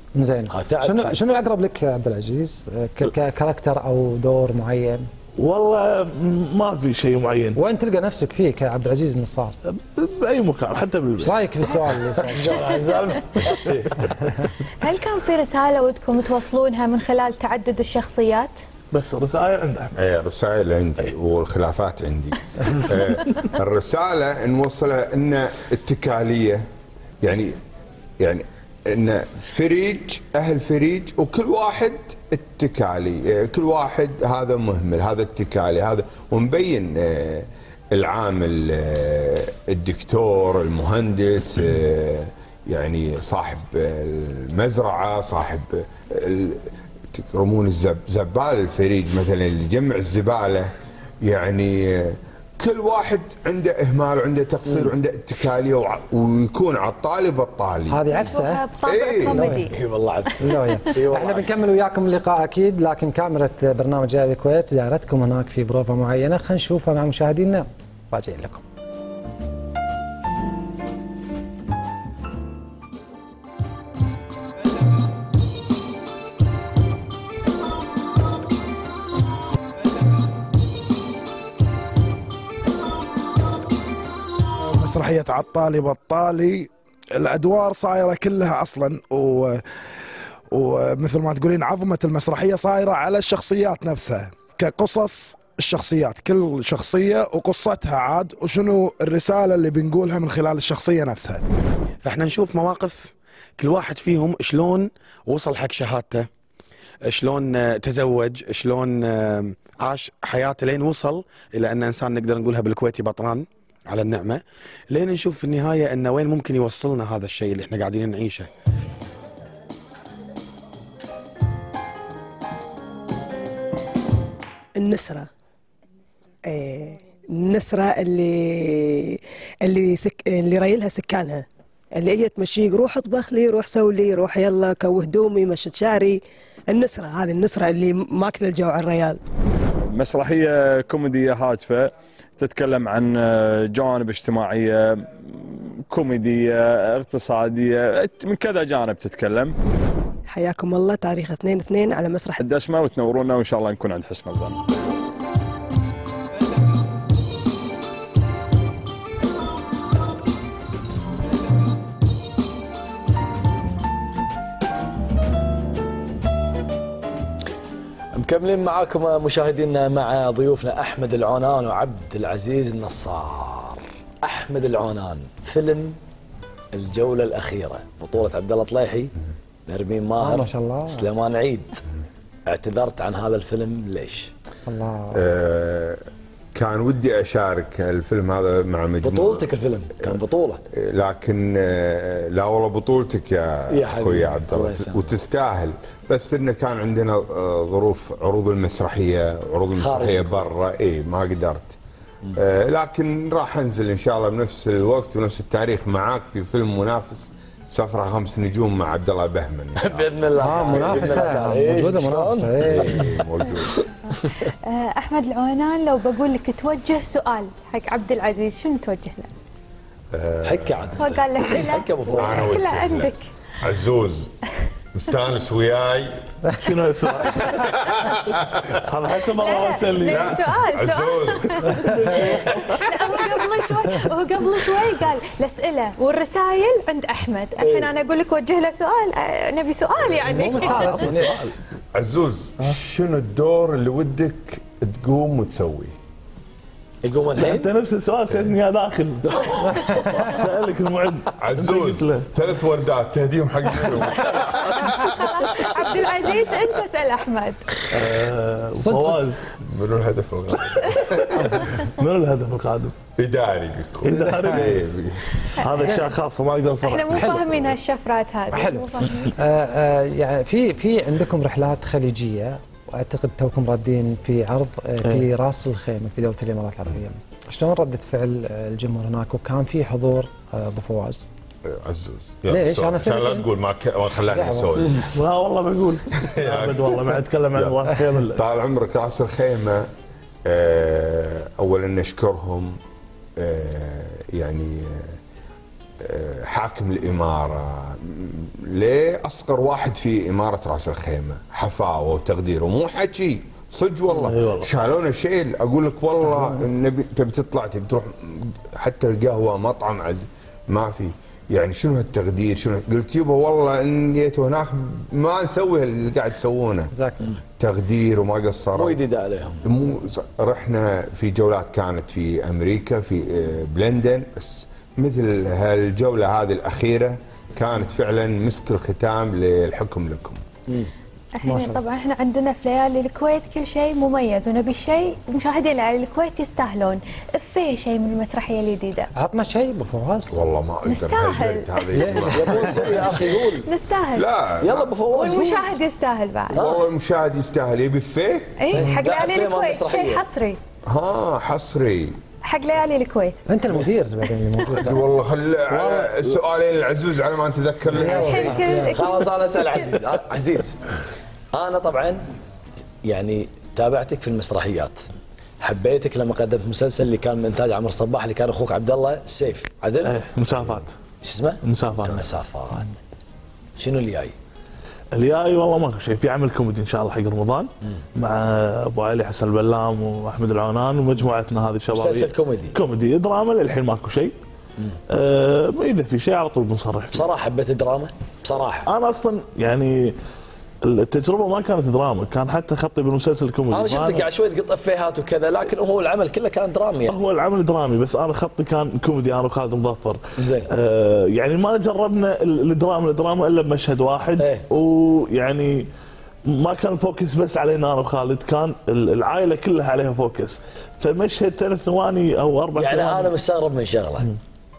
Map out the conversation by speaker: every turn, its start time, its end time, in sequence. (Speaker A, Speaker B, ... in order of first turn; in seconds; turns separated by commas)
Speaker A: 0.1-5.1, Speaker B: 0.5-1.2, Speaker C: 5.4-7.6, Speaker A: 7.5-9.5, Speaker C: 9.7-11.4, Speaker A: 11.2-12.7, Speaker B: 12.2-13.7, Speaker D: 12.7-13.1, Speaker D: 14.8-18.5, Speaker C: 18.9-19.9, Speaker E: 19.9-26.6, Speaker E: 27.2-27.6, Speaker E: 28.2-50.7, Speaker E: 51.2-58.0, Speaker A: 57.9-58.6, Speaker D: 58.1-59.8, Speaker E: 58.9-59.5, Speaker A: 59.3-59.7, Speaker B: 59.7-61.6, Speaker A: 60.4-68.6, Speaker F: 84.8-89.6, Speaker F: 90.5-101.4, Speaker G: 102.0-106.3, Speaker G: 107.0-118.5, Speaker H: 124.8-125.2, Speaker H: 126.5-129.1, Speaker H: 129.7-131.4, Speaker H: 132.0-136.2, Speaker H: 136.7-139.2, Speaker I: 139.9-145.3, Speaker I: 145.9-149.5, Speaker H: 150.3-152.3, Speaker I: 152.4-154.6, Speaker B: 168.1-176.0, Speaker B: 176.7-179.1, Speaker B: 179.7-181.8, Speaker A: 180.2-181.1, Speaker B: 182.4-184.3, Speaker A: 184.7-185.2, Speaker E: 185.1-186.0, Speaker E: 186.5-189.5, Speaker B: 189.0-190.6, Speaker E: 190.7-201.8, Speaker B: 193.7-195.2, Speaker B: 199.7-200.6, Speaker E: 202.3-210.1, Speaker B: 209.8-213.2, Speaker A: 210.4-213.1, Speaker E: 212.6-213.7, Speaker B: 214.2-214.5, Speaker D: 214.7-219.3, Speaker E: 220.1-221.0, Speaker B: 220.4-222.5, Speaker D: 221.0-223.3, Speaker E: 222.2-224.3, Speaker E: 224.9-226.2, Speaker C: 226.5-228.1, Speaker E: 227.6-228.2, Speaker C: 228.8-230.4, Speaker D: 229.1-241.1, Speaker E: 230.0-231.8, Speaker C: 231.7-232.7, Speaker B: 237.6-237.9, Speaker A: 240.3-241.3, Speaker C: 240.6-241.2, Speaker E: 241.9-245.9, Speaker B: 247.0-247.7, Speaker C: 247.4-252.2, Speaker B: 249.3-250.3, Speaker E: 251.4-255.8, Speaker D: 255.0-257.6, Speaker C: 257.9-259.4, Speaker A: 258.8-259.2, Speaker E: 259.6-261.6, Speaker C: 261.1-262.9, Speaker D: 261.6-261.8, Speaker E: 263.2-265.3, Speaker C: 264.0-264.9, Speaker C: 265.6-267.4, Speaker D: 265.6-266.0, Speaker A: 265.7-266.1, Speaker D: 266.8-269.3, Speaker A: 267.1-267.6, Speaker A: 268.5-281.2, Speaker E: 281.6-285.0, Speaker A: 282.5-283.5, Speaker A: 284.3-284.9, Speaker C: 285.1-288.4, Speaker E: 286.2-289.9, Speaker E: 290.4-292.8, Speaker E: 293.4-295.1, Speaker E: 296.0-316.9, Speaker C: 304.1-304.7, Speaker A: 306.1-306.7, Speaker A: 316.9-317.2, Speaker E: 317.6-319.0, Speaker B: 318.7-319.6, Speaker E: 319.6-330.4, Speaker D: 331.4-339.1, Speaker A: 331.4-331.8, Speaker A: 339.2-340.4, Speaker E: 340.3-343.1, Speaker D: 340.8-342.1, Speaker A: 341.9-343.2, Speaker B: 342.2-343.7, Speaker D: 343.5-344.3, Speaker E: 344.1-345.4, Speaker B: 344.6-345.7, Speaker D: 345.1-346.6, Speaker B: 346.5-346.8, Speaker E: 346.6-348.6, Speaker D: 348.6-350.6, Speaker B: 348.7-350.2, Speaker A: 348.8-349.0, Speaker E: 350.9-352.1, Speaker D: 352.4-353.4, Speaker A: 353.5-355.1, Speaker E: 354.8-358.6, Speaker C: 355.7-356.4, Speaker A: 357.9-358.9, Speaker D: 358.1-360.0, Speaker B: 358.9-360.8, Speaker B: 361.5-362.3, Speaker B: 363.0-365.1, Speaker B: 365.6-370.2, Speaker C: 370.0-370.9, Speaker B: 371.2-372.9, Speaker C: 371.6-372.3, Speaker B: 373.8-374.3, Speaker C: 375.1-384.3, Speaker B: 381.9-382.8, Speaker C: 385.1-387.3, Speaker B: 387.1-388.9, Speaker C: 388.9-390.1, Speaker C: 390.8-394.3, Speaker B: 393.7-397.2, Speaker C: 397.1-400.2, Speaker B: 400.4-400.7, Speaker C: 400.7-405.9, Speaker B: 404.4-404.6, Speaker C: 406.5-413.4, Speaker B: 412.8-414.3